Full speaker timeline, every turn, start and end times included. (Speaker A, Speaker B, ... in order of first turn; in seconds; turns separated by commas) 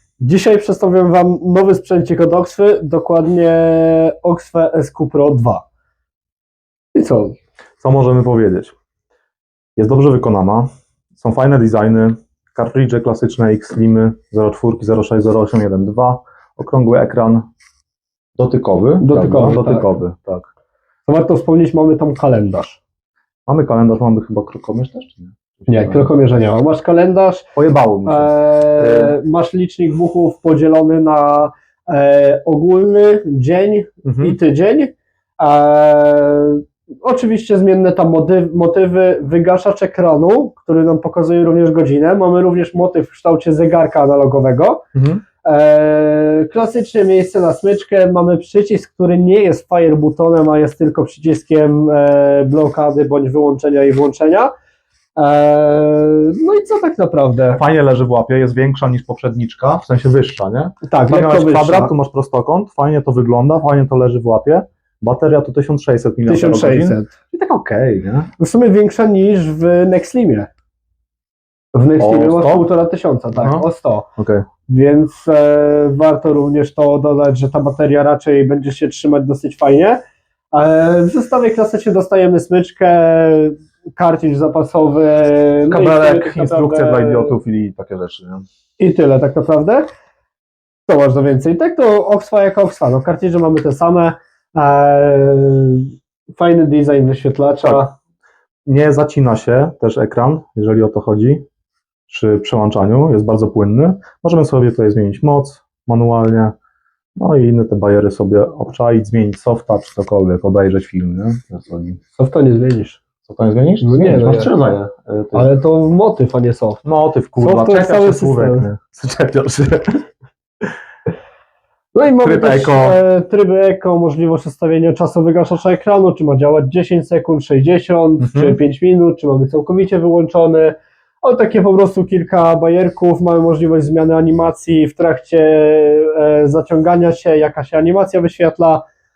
Speaker A: 0.2-5.6, Speaker A: 6.9-7.4, Speaker B: 7.8-8.7, Speaker B: 9.8-17.5, Speaker B: 18.4-20.5, Speaker A: 19.0-19.9, Speaker A: 21.1-22.8, Speaker B: 23.5-26.1, Speaker A: 25.7-27.5, Speaker B: 27.6-29.1, Speaker A: 28.0-44.8, Speaker B: 34.0-34.4, Speaker B: 44.9-45.2, Speaker A: 45.4-54.5, Speaker A: 55.1-57.6, Speaker B: 57.5-68.3, Speaker A: 60.8-61.9, Speaker A: 66.2-67.1, Speaker A: 68.4-70.5, Speaker A: 71.7-74.1, Speaker B: 72.0-72.7, Speaker B: 73.4-73.7, Speaker B: 74.2-74.4, Speaker A: 74.7-80.0, Speaker A: 80.5-87.3, Speaker B: 85.7-88.4, Speaker A: 88.8-89.8, Speaker A: 90.9-97.9, Speaker B: 97.6-97.9, Speaker B: 98.7-101.4, Speaker B: 102.1-106.5, Speaker B: 107.2-112.0, Speaker A: 112.1-113.0, Speaker B: 113.2-115.5, Speaker A: 113.8-114.7, Speaker A: 115.3-116.8, Speaker B: 116.8-120.0, Speaker A: 117.4-118.7, Speaker A: 121.9-138.8, Speaker B: 122.2-123.0, Speaker B: 128.2-128.6